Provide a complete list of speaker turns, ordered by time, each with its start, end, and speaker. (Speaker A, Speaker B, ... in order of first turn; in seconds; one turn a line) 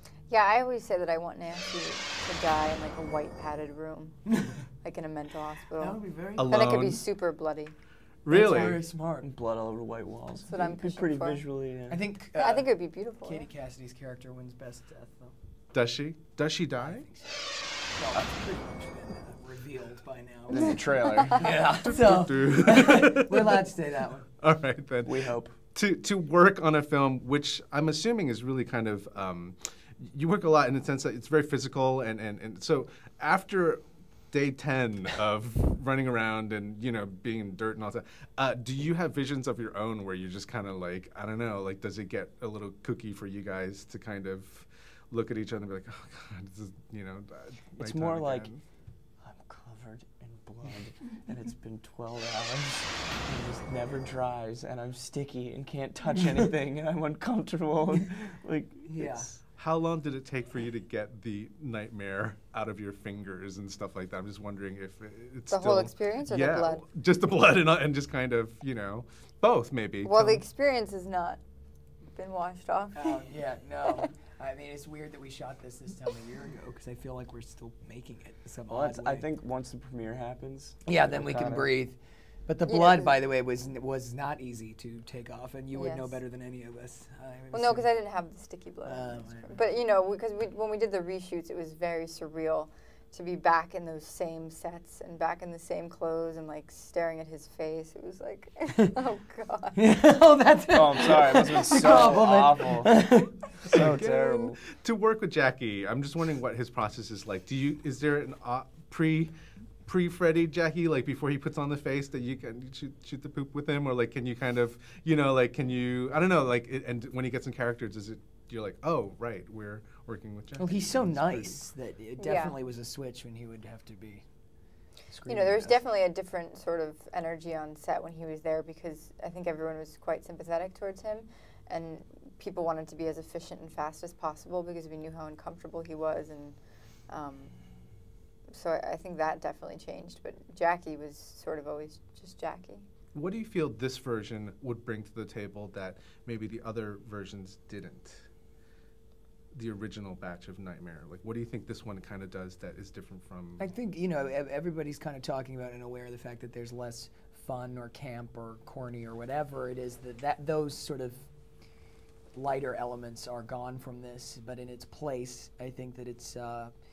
Speaker A: 0.3-4.3
Speaker B: 4.3-4.6
Speaker A: 4.8-7.7
Speaker B: 5.8-6.6
Speaker C: 6.4-7.0
Speaker C: 8.2-8.8
Speaker B: 8.3-9.3
Speaker D: 9.2-12.0
Speaker A: 10.4-11.4
Speaker B: 11.9-15.3
Speaker A: 12.3-13.5
Speaker C: 15.7-17.1
Speaker B: 16.8-17.3
Speaker B: 18.0-24.3
Speaker D: 20.5-21.7
Speaker A: 20.6-21.5
Speaker C: 21.6-23.7
Speaker C: 24.4-48.6
Speaker D: 25.0-25.6
Speaker D: 47.8-48.5
Speaker D: 49.2-59.3
Speaker B: 58.9-59.3
Speaker C: 59.5-70.4
Speaker A: 65.5-66.8
Speaker A: 70.0-71.4
Speaker A: 72.1-73.3
Speaker B: 73.0-79.3
Speaker D: 78.7-81.8
Speaker B: 80.9-87.9
Speaker A: 82.7-83.2
Speaker A: 85.7-86.2
Speaker A: 87.5-99.8
Speaker B: 88.8-89.7
Speaker B: 99.8-103.9
Speaker D: 100.7-103.2
Speaker D: 103.7-104.6
Speaker C: 103.7-109.3
Speaker C: 109.8-121.6
Speaker B: 120.6-124.2
Speaker A: 122.2-122.6
Speaker B: 125.1-125.8
Speaker A: 125.2-136.6
Speaker A: 137.1-137.6
Speaker A: 138.5-142.8
Speaker C: 143.1-148.3
Speaker C: 149.5-153.7
Speaker B: 153.6-161.3
Speaker B: 162.3-166.7